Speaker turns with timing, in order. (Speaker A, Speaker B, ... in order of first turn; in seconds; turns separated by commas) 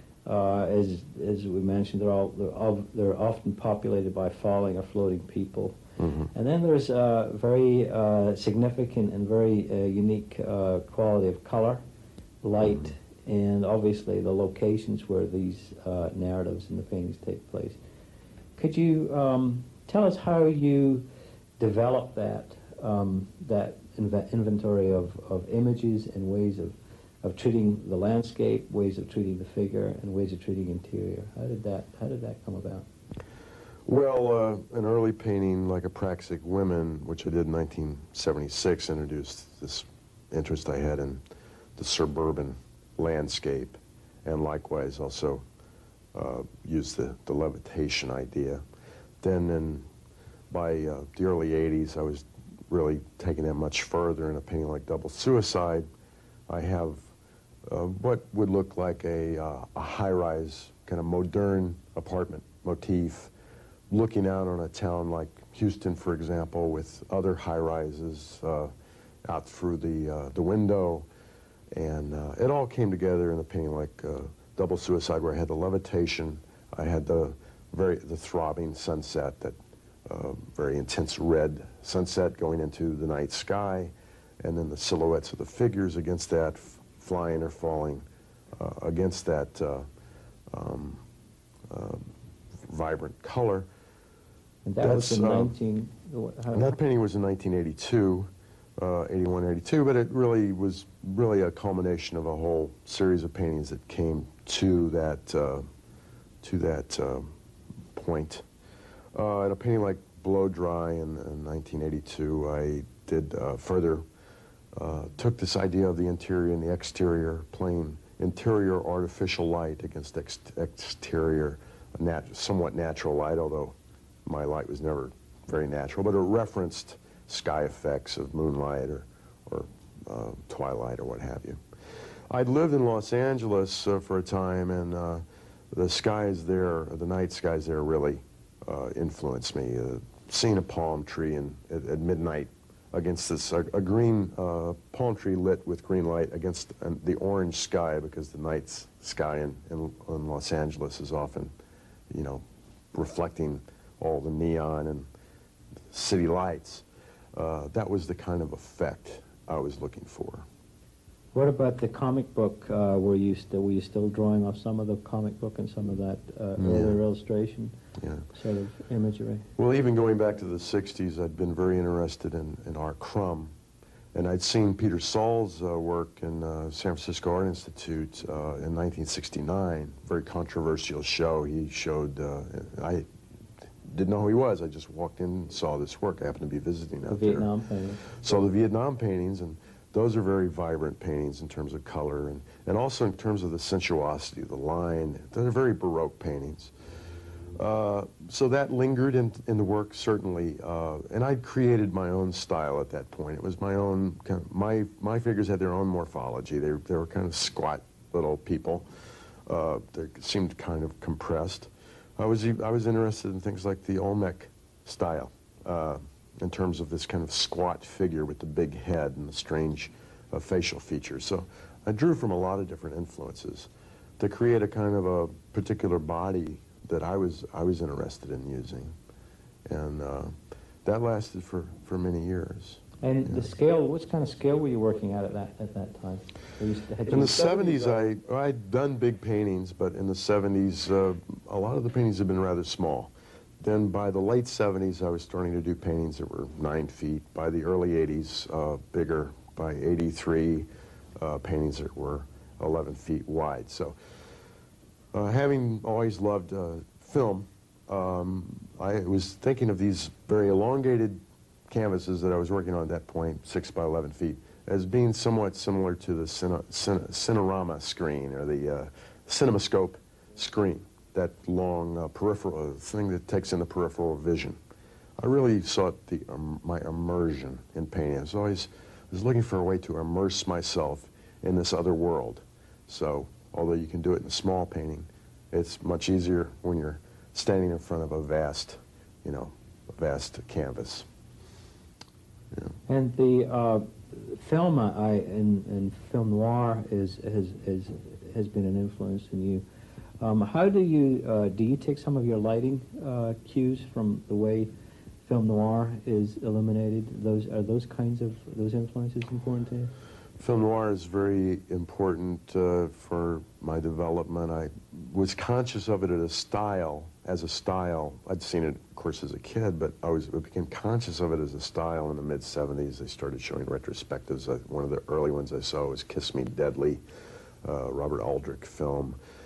Speaker A: 0.2-5.8, Speaker B: 6.0-6.3, Speaker A: 6.3-11.8, Speaker A: 12.4-17.8, Speaker B: 12.6-12.9, Speaker A: 18.6-21.1, Speaker A: 21.6-32.9, Speaker B: 33.9-41.2, Speaker B: 41.8-45.4, Speaker B: 46.1-48.6, Speaker B: 49.2-49.9, Speaker B: 50.5-55.9, Speaker B: 56.5-57.0, Speaker B: 57.6-63.3, Speaker B: 63.9-68.7, Speaker B: 69.2-71.1, Speaker B: 71.8-88.0, Speaker B: 88.5-89.8, Speaker B: 90.5-91.0, Speaker B: 91.7-92.1, Speaker B: 92.7-93.7, Speaker A: 94.6-96.7, Speaker B: 94.8-95.5, Speaker B: 96.5-98.3, Speaker B: 98.8-105.7, Speaker B: 106.4-107.3, Speaker B: 107.9-108.4, Speaker B: 109.1-114.0, Speaker B: 114.7-123.8, Speaker B: 124.2-131.6, Speaker B: 132.3-151.5, Speaker B: 152.1-155.1, Speaker B: 155.9-160.4, Speaker A: 161.3-167.7, Speaker B: 166.6-167.0, Speaker B: 168.0-168.3, Speaker A: 168.3-169.4, Speaker B: 169.6-173.5, Speaker B: 174.1-183.0, Speaker B: 183.8-187.5, Speaker A: 187.1-188.0, Speaker B: 188.0-196.7, Speaker B: 197.5-208.8, Speaker B: 209.5-228.9, Speaker B: 229.7-230.3, Speaker B: 230.8-233.4, Speaker A: 233.0-238.1, Speaker B: 237.1-250.7, Speaker B: 251.2-253.9, Speaker B: 255.1-274.6, Speaker B: 275.2-291.1, Speaker A: 292.9-299.6, Speaker A: 300.2-304.7, Speaker A: 305.2-309.9, Speaker B: 310.4-327.0, Speaker B: 327.6-329.2